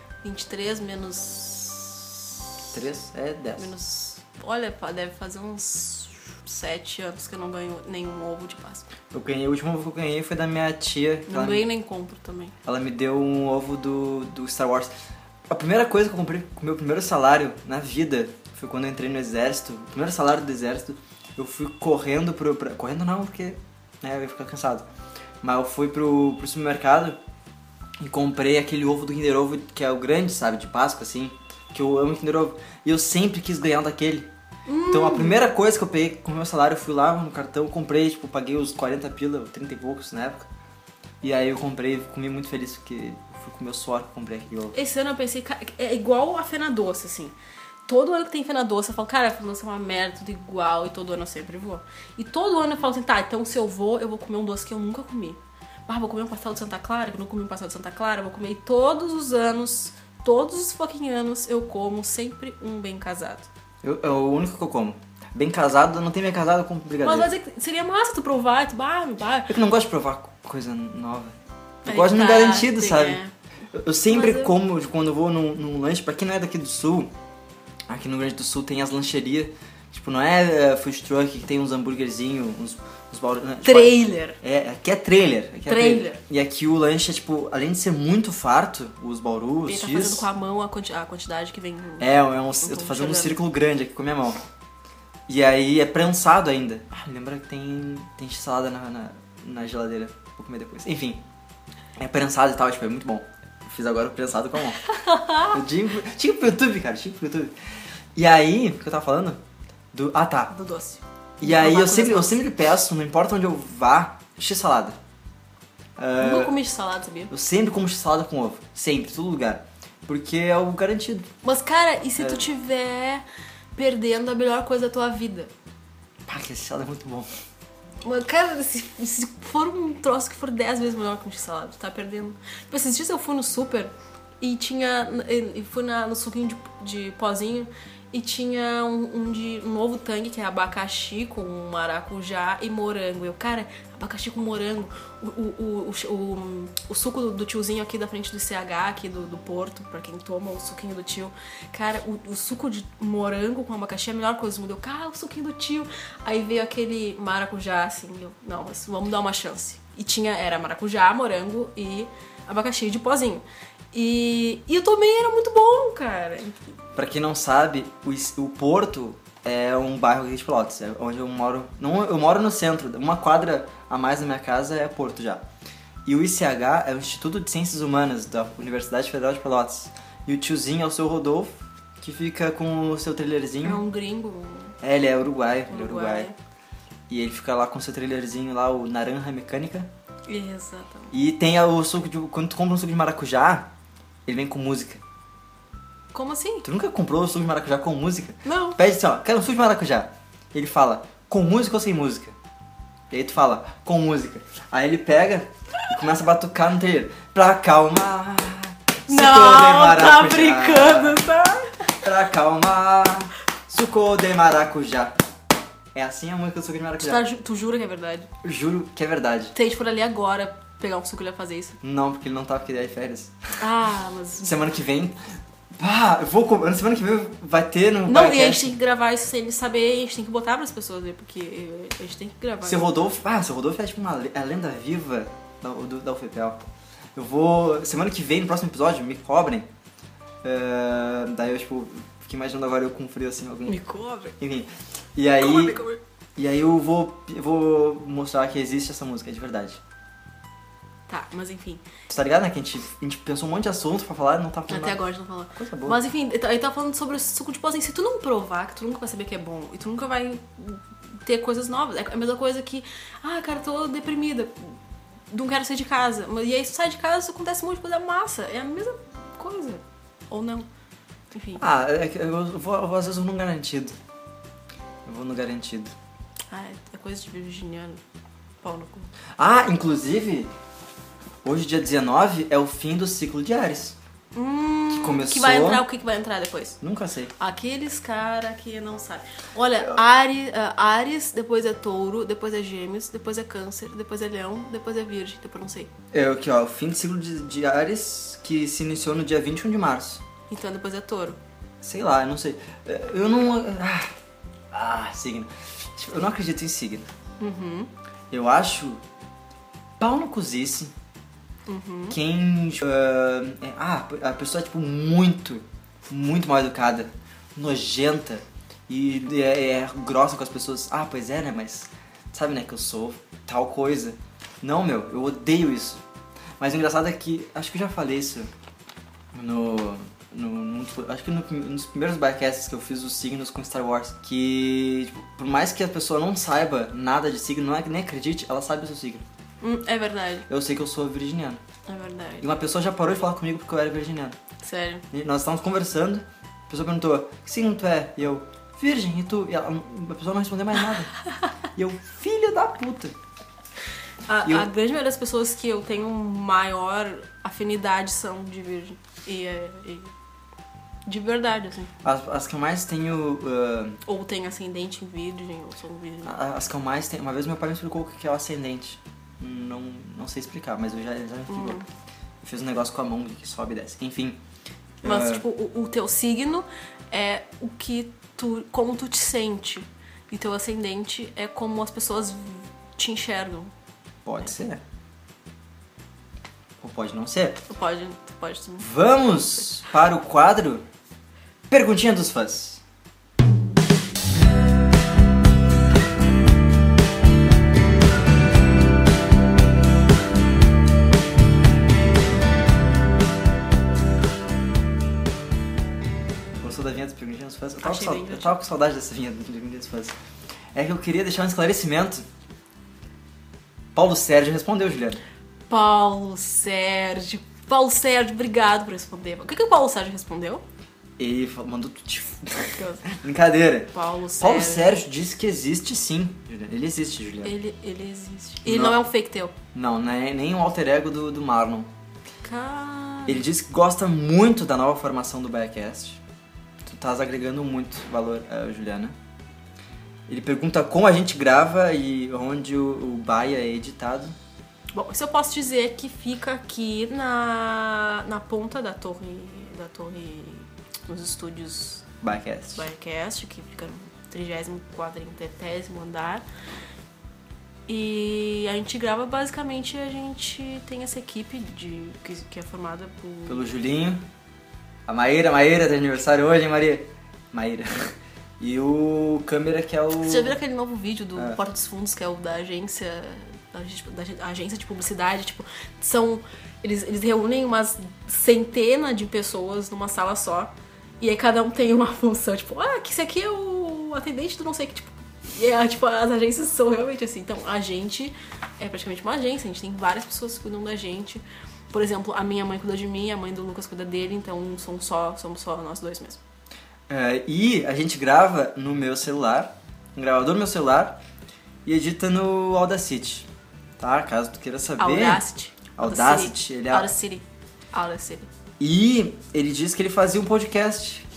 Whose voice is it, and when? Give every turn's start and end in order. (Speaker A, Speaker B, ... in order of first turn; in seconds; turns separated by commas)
Speaker A: 0.2-2.2, Speaker B: 2.7-3.7, Speaker A: 3.6-8.8, Speaker B: 9.1-11.7, Speaker A: 11.3-12.5, Speaker B: 12.6-14.9, Speaker B: 15.5-24.9, Speaker B: 25.4-27.2, Speaker B: 28.0-34.3, Speaker A: 34.7-35.5, Speaker B: 34.9-40.5, Speaker B: 41.2-44.8, Speaker A: 44.7-47.3, Speaker A: 47.9-63.5, Speaker B: 63.8-67.3, Speaker A: 67.0-69.5, Speaker B: 69.5-73.2, Speaker A: 71.8-73.3, Speaker B: 73.7-77.1, Speaker A: 74.1-74.5, Speaker B: 77.9-90.2, Speaker A: 83.6-84.4, Speaker A: 85.7-86.2, Speaker A: 89.7-93.4, Speaker B: 92.0-94.4, Speaker B: 95.3-101.2, Speaker B: 102.0-104.8, Speaker A: 104.8-105.6, Speaker B: 105.5-107.5, Speaker B: 108.1-109.4, Speaker B: 109.9-110.5, Speaker A: 110.5-112.5, Speaker B: 111.4-115.0, Speaker B: 116.0-116.6, Speaker A: 116.2-117.3, Speaker B: 117.3-121.3, Speaker A: 121.4-123.2, Speaker B: 122.2-122.5, Speaker A: 123.7-125.5, Speaker B: 126.2-127.3, Speaker A: 128.0-166.6, Speaker B: 166.9-175.4, Speaker B: 176.0-183.8, Speaker A: 183.6-184.8, Speaker B: 184.8-186.3, Speaker A: 185.7-186.3, Speaker B: 187.1-189.9, Speaker A: 190.3-191.2, Speaker B: 191.1-193.7, Speaker B: 194.2-195.0, Speaker A: 196.1-196.7, Speaker B: 196.6-202.3, Speaker A: 198.4-198.8, Speaker B: 203.1-211.2, Speaker A: 209.1-211.9, Speaker B: 211.9-215.2, Speaker B: 215.9-217.2, Speaker A: 217.0-218.3, Speaker B: 218.4-219.5, Speaker A: 219.5-221.8, Speaker B: 221.8-223.3, Speaker A: 223.6-224.7, Speaker B: 224.4-225.2, Speaker B: 225.8-228.7, Speaker A: 228.1-233.1, Speaker B: 232.6-236.6, Speaker B: 237.1-239.7, Speaker B: 240.4-243.8, Speaker A: 243.7-244.4, Speaker B: 244.4-245.8, Speaker A: 245.4-246.0, Speaker B: 246.3-249.8, Speaker A: 251.1-251.8, Speaker B: 252.1-255.0, Speaker A: 254.7-264.7, Speaker B: 255.5-256.0, Speaker A: 265.3-270.7, Speaker A: 271.3-271.6, Speaker B: 271.6-273.9, Speaker B: 275.0-275.9, Speaker A: 276.5-278.0, Speaker A: 278.6-279.1, Speaker B: 279.4-280.5, Speaker B: 281.4-284.0, Speaker A: 284.3-286.8, Speaker B: 284.9-285.8, Speaker B: 286.8-287.3, Speaker A: 287.4-295.9, Speaker B: 296.1-300.2, Speaker A: 300.5-301.4, Speaker B: 301.8-304.1, Speaker B: 304.7-307.1, Speaker A: 307.4-307.9, Speaker B: 308.3-309.0, Speaker B: 310.0-310.9, Speaker A: 311.7-312.2, Speaker B: 312.1-326.0, Speaker B: 326.6-328.5, Speaker B: 329.3-339.2, Speaker A: 339.6-340.5, Speaker B: 340.5-341.6, Speaker A: 341.9-342.6, Speaker B: 342.4-344.4, Speaker A: 344.6-345.0, Speaker B: 345.1-351.1, Speaker B: 351.7-353.1, Speaker A: 354.3-360.1, Speaker A: 361.1-361.9, Speaker B: 362.0-364.0, Speaker A: 364.0-366.4, Speaker B: 366.2-371.8, Speaker A: 371.5-371.9, Speaker B: 372.4-374.4, Speaker B: 375.0-375.4, Speaker A: 375.0-383.7, Speaker B: 384.2-384.8, Speaker B: 386.8-387.6, Speaker A: 387.7-388.9, Speaker B: 388.8-390.8, Speaker B: 391.7-392.8, Speaker B: 406.6-410.1, Speaker A: 407.8-408.6, Speaker B: 410.7-412.2, Speaker B: 413.9-415.2, Speaker A: 415.7-420.6, Speaker B: 421.2-427.5, Speaker A: 422.7-423.1, Speaker A: 423.9-425.0, Speaker A: 427.4-429.5, Speaker B: 428.6-429.0, Speaker B: 429.7-431.9, Speaker A: 432.4-433.4, Speaker B: 433.3-436.2, Speaker B: 436.8-439.1, Speaker B: 440.3-444.3, Speaker A: 444.9-452.0, Speaker B: 452.2-452.9, Speaker A: 452.7-456.4, Speaker A: 457.9-463.6, Speaker B: 463.5-464.2, Speaker B: 465.1-470.6, Speaker A: 470.2-496.4, Speaker B: 497.1-501.2, Speaker B: 501.8-505.4, Speaker A: 505.0-508.5, Speaker B: 505.9-507.1, Speaker B: 508.8-511.2